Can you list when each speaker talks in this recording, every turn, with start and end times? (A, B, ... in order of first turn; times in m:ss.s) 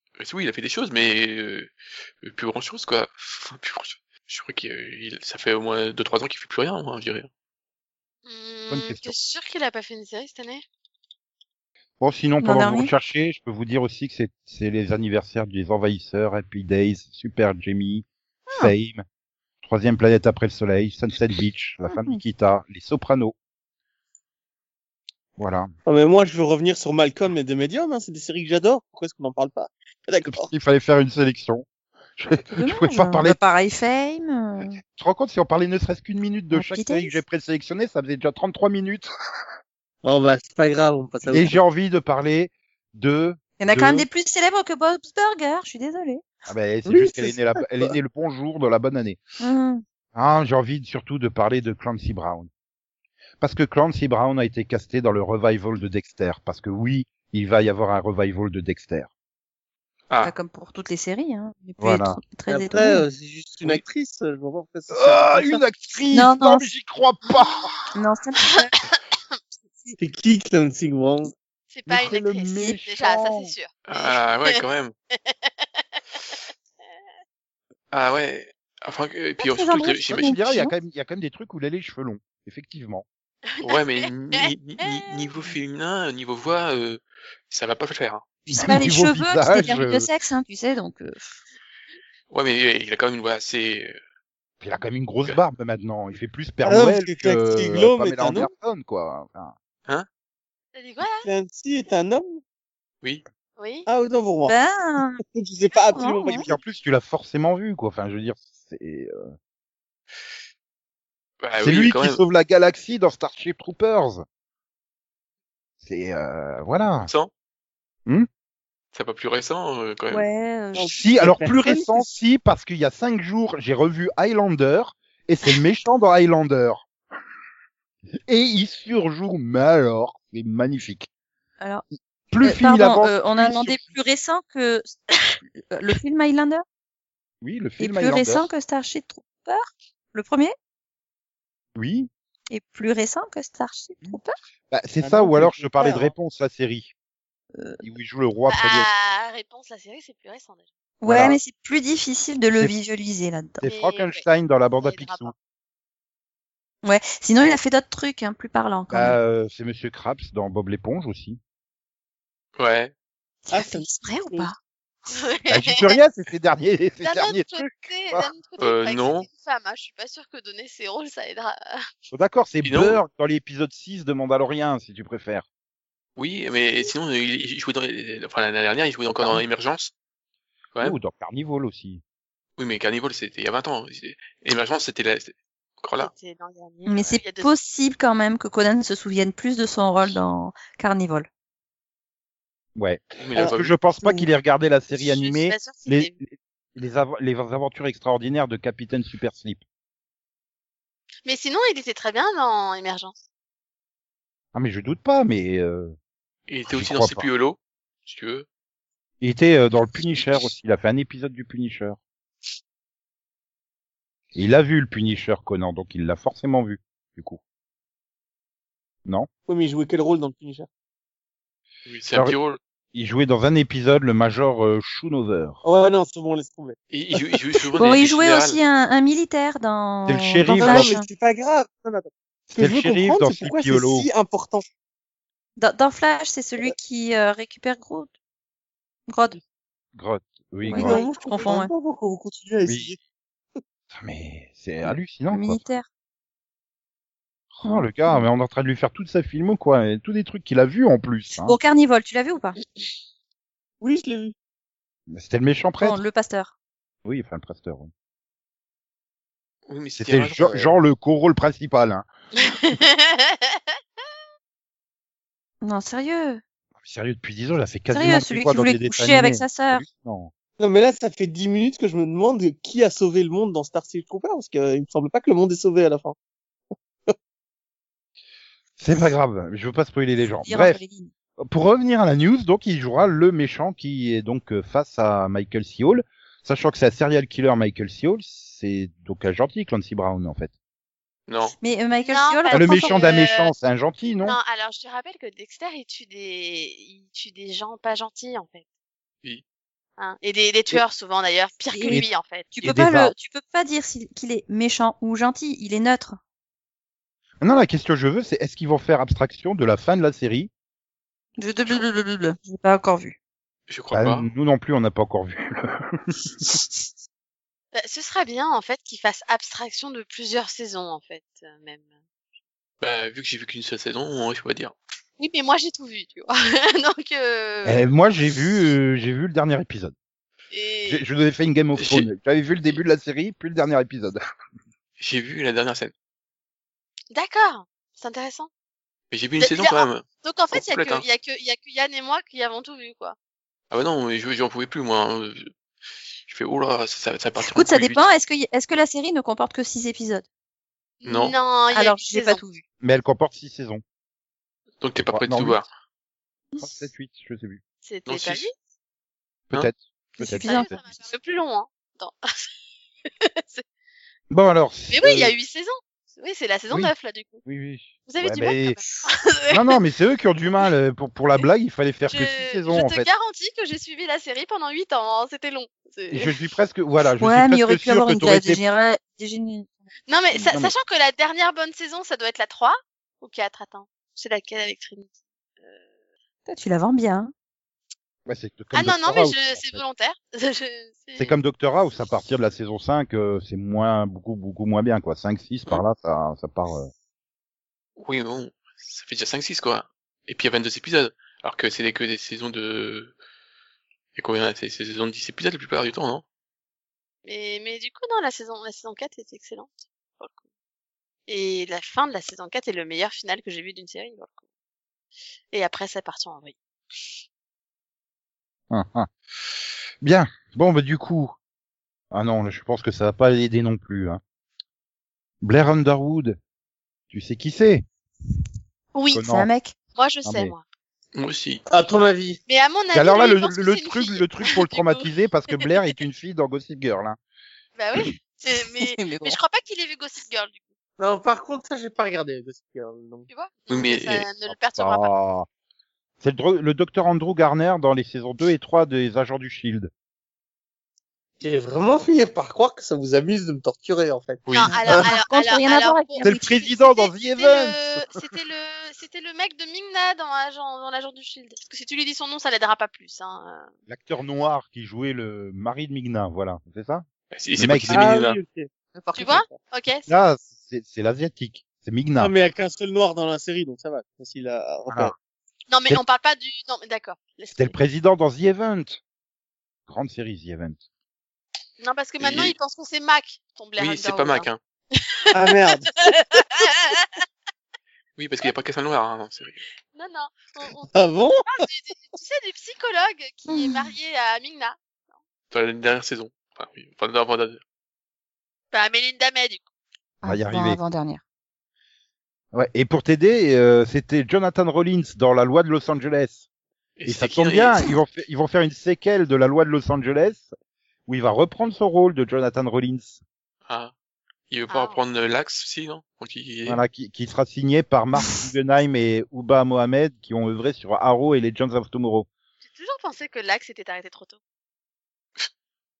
0:00.2-0:07.3 A
0:08.3-0:10.6 B
0:08.7-0:09.1 C
0:12.0-0:19.0 C
0:12.4-0:12.9 D
0:19.6-0:23.4 C
0:21.9-0:22.2 D
0:25.4-0:25.7 C
0:25.9-0:30.5 E
0:30.3-0:31.7 C
0:32.2-0:33.4 C
0:32.5-0:34.8 D
0:35.0-0:39.1 C
0:36.5-0:37.2 D
0:40.0-0:41.6 E
0:41.3-0:44.1 C
0:43.6-0:46.3 D
0:46.5-0:49.2 C
0:46.8-0:48.0 E
0:49.4-0:49.8 D
0:50.2-0:52.5 C
0:53.4-0:59.1 C
1:00.2-1:03.0 D
1:01.8-1:02.2 C
1:02.5-1:05.6 E
1:04.9-1:07.8 C
1:06.1-1:06.7 D
1:08.0-1:08.7 D
1:08.5-1:08.8 B
1:10.0-1:11.3 E
1:11.7-1:14.6 B
1:11.9-1:13.5 C
1:13.9-1:14.9 A
1:15.2-1:15.7 B
1:17.9-1:20.4 A
1:19.4-1:20.7 D
1:20.1-1:23.0 C
1:23.5-1:23.8 B
1:23.6-1:28.2 A
1:24.4-1:25.5 B
1:28.5-1:31.4 D
1:28.6-1:30.1 C
1:32.3-1:34.0 A
1:34.6-1:39.6 C
1:36.6-1:38.5 E
1:40.8-1:41.3 B
1:41.2-1:42.4 E
1:43.6-1:43.9 B
1:43.9-1:44.6 E
1:44.5-1:45.2 D
1:45.2-1:46.6 E
1:45.9-1:46.5 D
1:46.3-1:49.3 C
1:51.4-1:52.2 A
1:51.6-1:54.2 C
1:55.8-1:57.1 C
1:58.9-2:00.3 A
2:00.1-2:01.0 D
2:00.7-2:02.2 E
2:01.0-2:06.8 C
2:08.3-2:11.1 C
2:12.3-2:13.9 C
2:12.4-2:14.9 D
2:15.7-2:16.6 D
2:17.4-2:18.5 C
2:17.8-2:20.6 D
2:21.8-2:22.1 C
2:22.5-2:24.4 D
2:24.0-2:26.9 C
2:25.0-2:26.1 E
2:27.6-2:27.8 D
2:27.8-2:28.9 C
2:28.5-2:30.7 B
2:31.0-2:33.6 D
2:31.0-2:31.4 C
2:33.6-2:35.3 C
2:33.6-2:34.2 B
2:34.8-2:35.3 B
2:36.8-2:39.2 D
2:38.9-2:41.4 C
2:42.6-2:42.9 A
2:43.4-2:44.6 D
2:43.5-2:44.5 E
2:45.1-2:46.0 B
2:45.5-2:48.3 C
2:47.0-2:51.8 B
2:48.6-2:49.3 A
2:52.1-2:55.4 C
2:52.6-2:53.0 A
2:56.2-2:59.9 A
3:00.8-3:02.0 C
3:02.6-3:06.1 A
3:06.0-3:07.5 B
3:06.9-3:11.3 D
3:12.8-3:19.6 C
3:13.2-3:13.8 A
3:15.0-3:16.1 B
3:21.2-3:23.2 B
3:24.5-3:26.0 C
3:26.5-3:28.5 A
3:26.7-3:27.3 C
3:29.2-3:32.0 C
3:34.3-3:37.4 C
3:39.5-3:40.7 E
3:41.9-3:42.6 A
3:42.9-3:45.6 C
3:45.6-3:47.4 E
3:46.9-3:48.6 A
3:47.8-3:51.1 D
3:50.1-3:51.0 C
3:50.5-3:54.7 E
3:52.5-3:54.1 C
3:55.6-3:58.1 D
3:59.1-3:59.4 D
3:59.9-4:01.1 C
4:00.6-4:01.7 D
4:00.7-4:03.0 E
4:02.7-4:02.9 C
4:03.9-4:05.6 C
4:05.3-4:05.9 D
4:07.5-4:11.6 C
4:07.6-4:08.3 D
4:11.4-4:12.6 D
4:13.8-4:14.3 E
4:15.1-4:16.0 C
4:15.8-4:16.5 D
4:17.0-4:17.9 C
4:19.7-4:20.7 A
4:20.0-4:22.1 C
4:22.4-4:23.6 B
4:25.6-4:26.4 D
4:26.8-4:30.3 C
4:27.9-4:29.8 D
4:30.6-4:36.2 E
4:38.8-4:40.8 C
4:40.4-4:41.1 D
4:41.4-4:50.5 C
4:51.3-4:51.6 A
4:51.6-4:53.0 D
4:52.0-4:53.5 B
4:52.5-4:54.4 C
4:54.2-4:58.6 B
5:00.0-5:02.6 B
5:01.7-5:06.2 D
5:02.6-5:03.1 C
5:07.4-5:10.5 C
5:11.4-5:13.2 D
5:13.7-5:14.3 A
5:13.9-5:16.2 C
5:17.7-5:21.9 B
5:22.8-5:24.8 A
5:25.2-5:27.9 B
5:27.6-5:29.9 C
5:30.5-5:31.0 B
5:30.8-5:34.2 C
5:31.8-5:32.1 A
5:35.0-5:35.9 A
5:37.1-5:38.5 B
5:39.1-5:41.0 A
5:39.4-5:43.2 B
5:43.7-5:45.5 A
5:46.3-5:48.0 A
5:47.4-5:50.2 D
5:51.0-5:52.4 B
5:51.1-5:51.4 A
5:51.7-5:52.6 D
5:52.8-5:53.8 C
5:54.8-5:55.7 A
5:55.0-5:55.6 C
5:56.6-5:57.6 C
5:57.8-5:58.5 B
5:58.1-5:58.5 A
5:59.5-6:00.8 C
6:00.2-6:00.7 D
6:00.4-6:02.2 B
6:03.2-6:03.6 B
6:04.3-6:05.3 C
6:04.9-6:07.4 B
6:07.4-6:08.8 C
6:08.1-6:09.8 B
6:09.5-6:13.1 C
6:12.1-6:16.3 B
6:16.1-6:18.6 C
6:17.2-6:19.8 D
6:20.1-6:25.1 B
6:20.4-6:20.7 C
6:26.5-6:27.3 D
6:28.3-6:29.8 C
6:28.7-6:31.4 B
6:31.2-6:36.9 C
6:38.0-6:43.2 A
6:44.2-6:46.2 A
6:47.2-6:50.3 B
6:51.3-6:54.3 B
6:55.5-6:56.6 B
6:58.7-6:59.1 C
7:00.0-7:01.4 C
7:02.1-7:04.2 C
7:05.4-7:06.4 C
7:07.1-7:07.8 C
7:09.0-7:09.2 B
7:09.1-7:09.5 C
7:09.2-7:09.8 D
7:10.0-7:10.6 B
7:10.2-7:10.6 C
7:11.1-7:11.6 A
7:11.7-7:12.4 E
7:12.5-7:15.1 B
7:12.9-7:17.2 C
7:17.8-7:20.6 B
7:18.8-7:19.4 D
7:21.0-7:23.3 E
7:23.3-7:25.1 B
7:23.7-7:24.3 A
7:24.5-7:25.5 C
7:26.2-7:29.9 C
7:31.4-7:34.5 E
7:34.5-7:34.8 A
7:34.5-7:43.7 B
7:34.8-7:36.5 D
7:36.2-7:38.0 C
7:43.9-7:47.0 C
7:47.3-7:48.4 A
7:47.6-7:48.2 C
7:47.8-7:48.7 E
7:49.0-7:49.4 D
7:49.2-7:50.1 B
7:49.3-7:49.6 E
7:50.1-7:52.4 C
7:52.2-7:55.1 E
7:55.7-7:57.8 B
7:57.5-7:59.0 C
7:59.9-8:00.8 C
8:01.8-8:05.4 B
8:02.2-8:02.6 A
8:03.8-8:04.6 A
8:05.3-8:05.9 E
8:05.9-8:07.2 B
8:08.2-8:09.6 A
8:09.9-8:10.9 B
8:10.9-8:11.6 E
8:11.5-8:14.8 B
8:13.5-8:13.9 D
8:15.5-8:17.6 A
8:18.7-8:19.6 B
8:20.2-8:21.2 D
8:20.2-8:20.8 C
8:22.5-8:26.4 C
8:27.0-8:27.9 A
8:27.1-8:30.5 C
8:31.1-8:33.2 C
8:33.7-8:33.9 A
8:34.5-8:36.8 A
8:34.7-8:35.0 B
8:36.7-8:42.3 C
8:42.6-8:44.4 B